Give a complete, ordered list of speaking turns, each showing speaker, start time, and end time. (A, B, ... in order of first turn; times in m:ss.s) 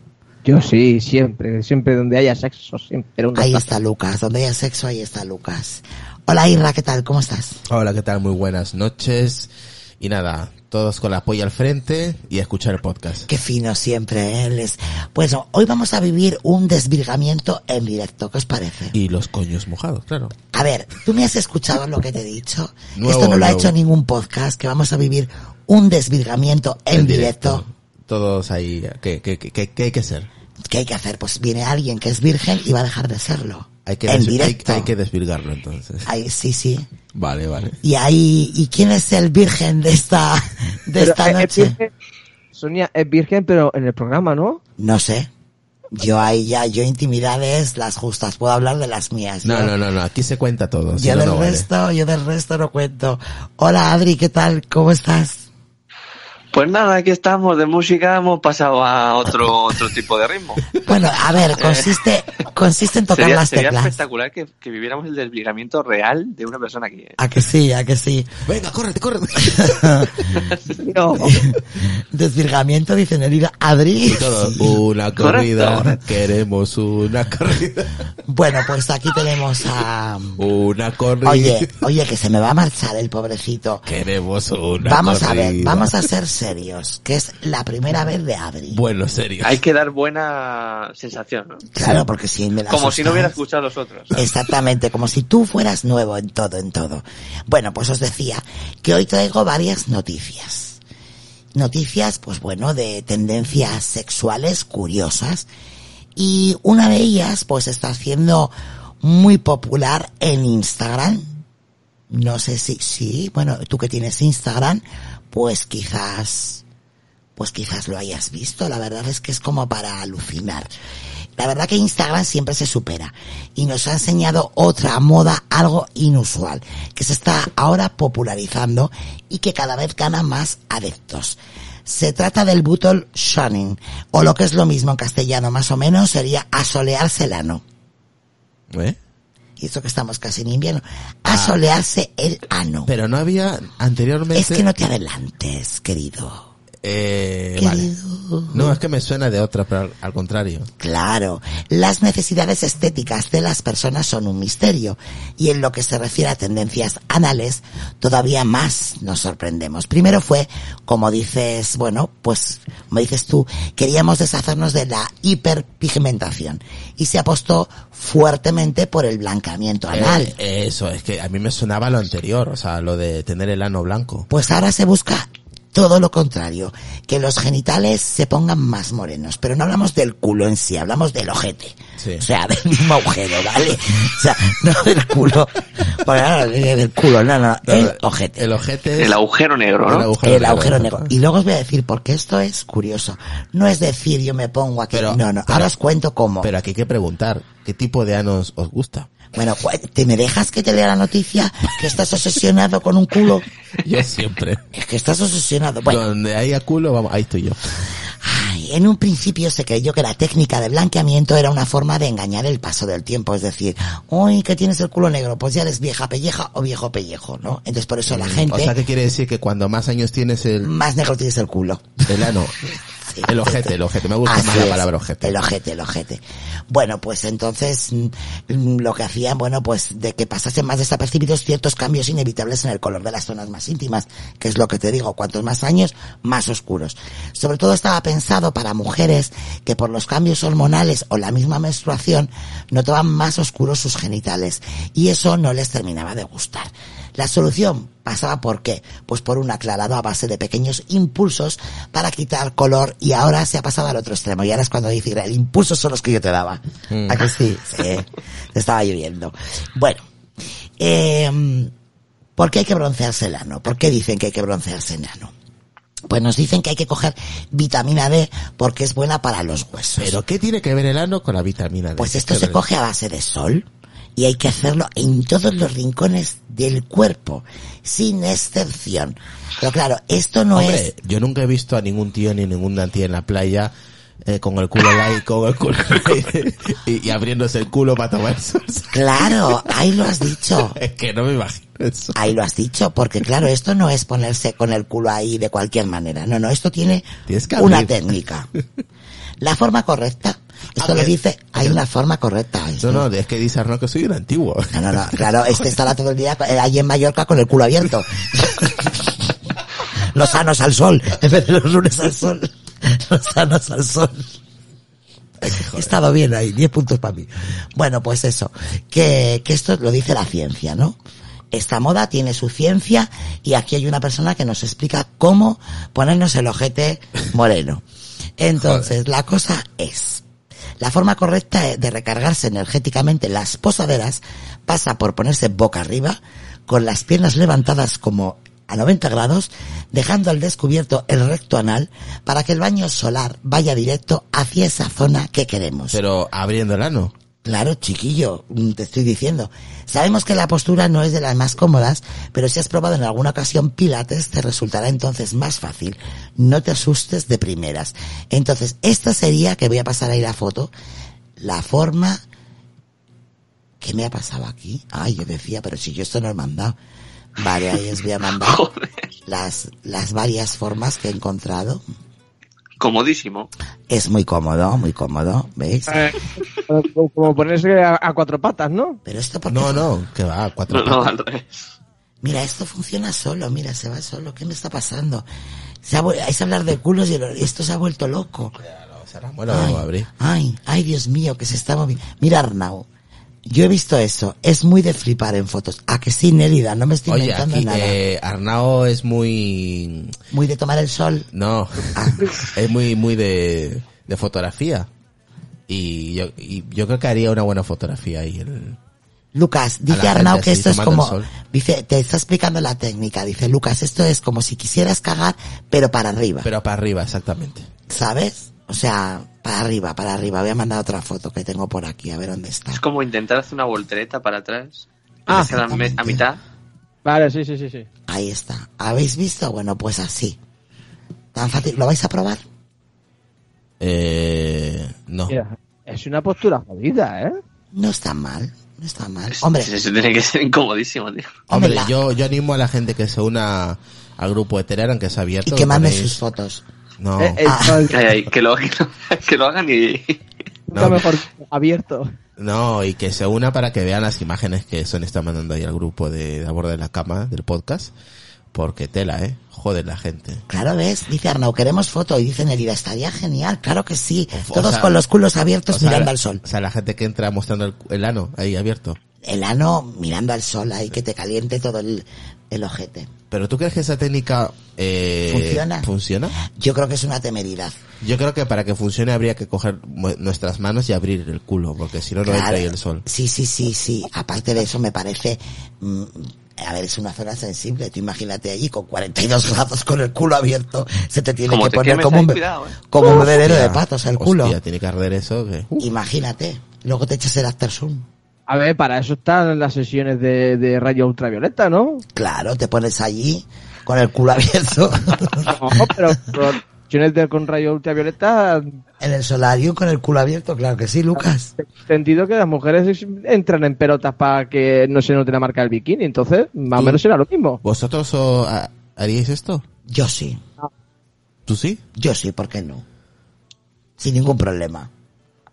0:00.4-0:03.7 A
0:03.3-0:07.6 B
0:07.7-0:13.3 C
0:13.3-0:19.0 B
0:18.9-0:20.3 C
0:20.5-0:27.6 B
0:22.9-0:23.7 C
0:26.9-0:30.3 C
0:30.7-0:34.9 B
0:33.8-0:36.1 C
0:36.0-0:36.9 B
0:37.1-0:37.8 C
0:37.8-0:41.8 B
0:41.0-0:41.9 A
0:42.5-0:44.6 A
0:44.8-0:45.3 B
0:45.9-0:49.7 B
0:49.4-0:51.7 C
0:50.9-0:55.5 B
0:56.5-1:00.6 D
1:00.8-1:03.9 B
1:01.6-1:01.9 D
1:03.1-1:07.2 D
1:07.2-1:08.3 B
1:08.4-1:10.4 C
1:09.4-1:10.2 B
1:10.8-1:11.3 A
1:11.2-1:14.8 B
1:14.0-1:18.0 C
1:15.1-1:15.9 D
1:18.2-1:20.4 B
1:20.4-1:21.7 C
1:21.2-1:23.9 B
1:23.8-1:26.0 C
1:24.8-1:28.8 B
1:28.7-1:29.6 C
1:29.4-1:31.7 D
1:31.7-1:33.4 B
1:32.7-1:34.1 D
1:34.1-1:40.8 B
1:41.5-1:45.5 B
1:46.2-1:51.3 B
1:52.1-1:56.6 B
1:57.4-2:00.7 B
2:01.4-2:17.6 B
2:18.7-2:19.0 C
2:19.6-2:22.9 B
2:21.3-2:21.6 C
2:22.9-2:24.6 C
2:24.3-2:26.5 B
2:26.8-2:27.9 C
2:27.6-2:28.8 B
2:28.5-2:30.7 C
2:30.8-2:50.4 B
2:49.9-2:54.3 C
2:54.3-3:08.5 B
3:02.0-3:02.2 C
3:07.7-3:09.2 C
3:09.0-3:10.1 D
3:09.8-3:11.1 C
3:10.2-3:16.5 B
3:14.9-3:15.7 C
3:16.4-3:19.1 C
3:19.3-3:23.5 B
3:23.8-3:24.6 C
3:24.7-3:26.0 B
3:25.8-3:27.7 C
3:28.2-3:38.8 B
3:38.1-3:40.7 C
3:40.6-3:42.3 B
3:42.1-3:42.6 C
3:43.1-4:20.0 B
3:43.2-3:45.3 C
4:16.9-4:17.3 C
4:20.8-4:21.7 B
4:22.4-4:25.3 B
4:26.1-4:30.2 B
4:30.0-4:32.6 C
4:32.0-4:40.9 B
4:40.5-4:43.7 C
4:44.2-4:49.7 C
4:48.9-4:50.8 B
4:50.5-4:52.2 C
4:52.1-4:58.5 B
4:57.3-4:58.0 C
4:59.4-5:03.1 B
5:00.8-5:01.8 C
5:02.8-5:05.7 C
5:04.7-5:09.2 B
5:10.1-5:14.4 B
5:15.4-5:21.0 B
5:15.4-5:15.9 C
5:21.5-5:27.8 B
5:28.4-5:30.2 B
5:30.8-5:46.0 B
5:45.9-5:47.1 C
5:47.4-6:00.7 B
6:01.4-6:02.2 B
6:03.8-6:06.8 B
6:07.4-6:08.6 B
6:08.3-6:09.0 D
6:09.3-6:11.8 B
6:12.8-6:13.5 D
6:13.9-6:16.0 B
6:15.9-6:19.0 A
6:19.0-6:19.9 B
6:19.5-6:21.2 C
6:20.7-6:21.7 D
6:22.2-6:25.2 B
6:25.8-6:28.6 B
6:28.6-6:30.1 C
6:29.5-6:32.8 B
6:33.4-6:38.0 B
6:37.1-6:40.1 C
6:40.3-6:41.3 B
6:41.3-6:44.9 C
6:41.9-6:42.3 B
6:45.7-6:48.8 C
6:49.3-6:56.5 B
6:49.9-6:51.3 C
6:56.4-6:57.7 C
6:57.9-7:02.8 B
7:02.7-7:06.4 D
7:05.3-7:06.2 B
7:07.0-7:07.9 A
7:08.1-7:10.4 B
7:11.3-7:12.4 B
7:13.8-7:15.3 C
7:15.3-7:17.4 A
7:17.7-7:19.7 B
7:19.3-7:21.4 D
7:21.5-7:21.9 B
7:21.5-7:26.2 C
7:25.4-7:26.6 B
7:27.0-7:27.4 C
7:27.2-7:28.0 A
7:27.4-7:27.9 B
7:27.9-7:30.2 D
7:30.7-7:32.1 A
7:30.7-7:31.0 C
7:32.4-7:37.9 C
7:38.5-7:40.4 C
7:40.5-7:46.4 B
7:44.3-7:44.9 C
7:45.7-7:49.0 C
7:49.2-7:53.1 B
7:53.3-7:56.4 C
7:55.3-7:55.9 B
7:56.4-7:57.8 B
7:58.0-8:03.0 C
8:02.2-8:14.6 B
8:11.5-8:12.9 D
8:13.1-8:15.8 C
8:15.8-8:18.1 B
8:18.5-8:22.0 A
8:22.1-8:25.9 B
8:25.5-8:28.8 A
8:29.0-8:31.5 B
8:31.2-8:37.6 A
8:36.7-8:37.0 C
8:37.6-8:39.6 C
8:39.8-8:40.4 B
8:41.5-8:41.8 C
8:41.9-8:42.8 B
8:44.0-8:44.9 B